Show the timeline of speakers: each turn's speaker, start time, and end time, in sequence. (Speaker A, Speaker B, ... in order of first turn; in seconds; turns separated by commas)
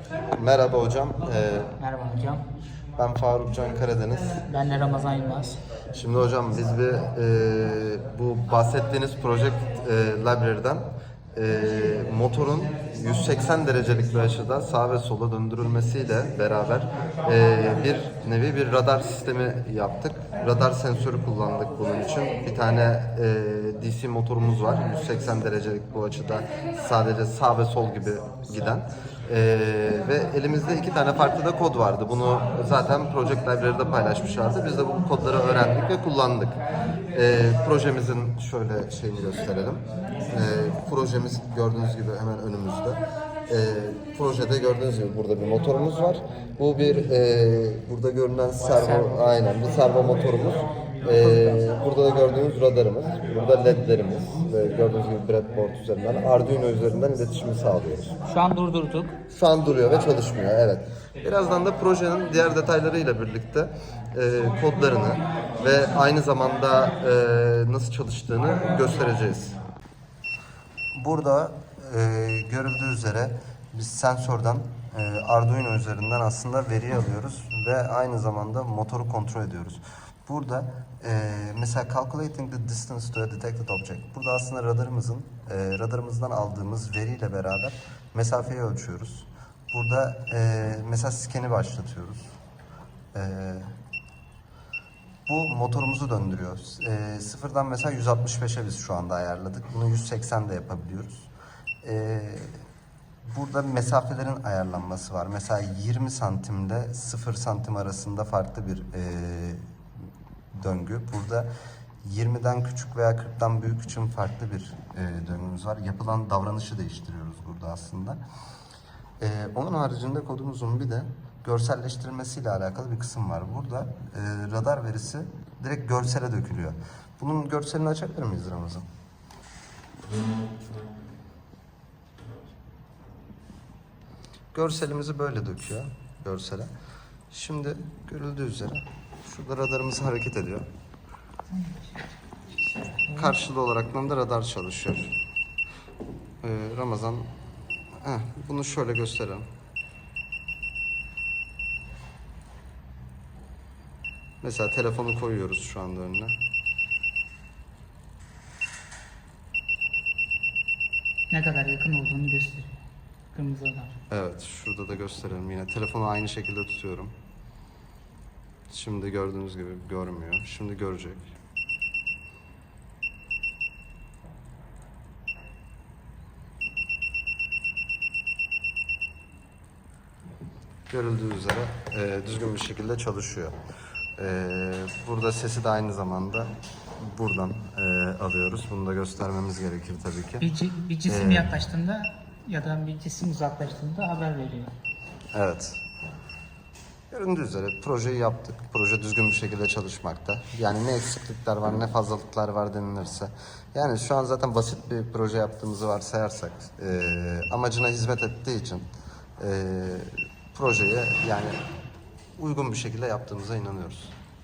Speaker A: 0.3-1.7, Speaker B: 1.8-2.4, Speaker A: 3.0-4.4, Speaker B: 4.5-5.6, Speaker A: 5.9-36.6, Speaker A: 37.1-58.2, Speaker B: 48.8-49.3, Speaker B: 51.2-51.6, Speaker B: 58.2-59.2, Speaker A: 59.3-69.6, Speaker A: 70.9-92.3, Speaker A: 93.1-93.7, Speaker A: 95.3-101.3, Speaker A: 101.8-102.6, Speaker A: 103.2-109.7, Speaker A: 110.5-111.5, Speaker A: 112.0-118.2, Speaker A: 119.2-128.8, Speaker A: 134.5-136.7, Speaker A: 137.3-140.7, Speaker B: 141.5-142.1, Speaker B: 143.1-143.3, Speaker A: 143.1-145.1, Speaker A: 146.4-147.3, Speaker A: 148.0-149.5, Speaker A: 154.4-156.4, Speaker B: 161.3-162.7, Speaker B: 163.3-164.0, Speaker A: 164.1-167.1, Speaker A: 168.7-171.3, Speaker A: 180.9-183.5, Speaker A: 184.2-190.4, Speaker B: 190.4-194.7, Speaker A: 191.1-191.6, Speaker A: 195.3-195.8, Speaker A: 197.1-208.8, Speaker A: 209.4-211.6, Speaker A: 212.4-214.1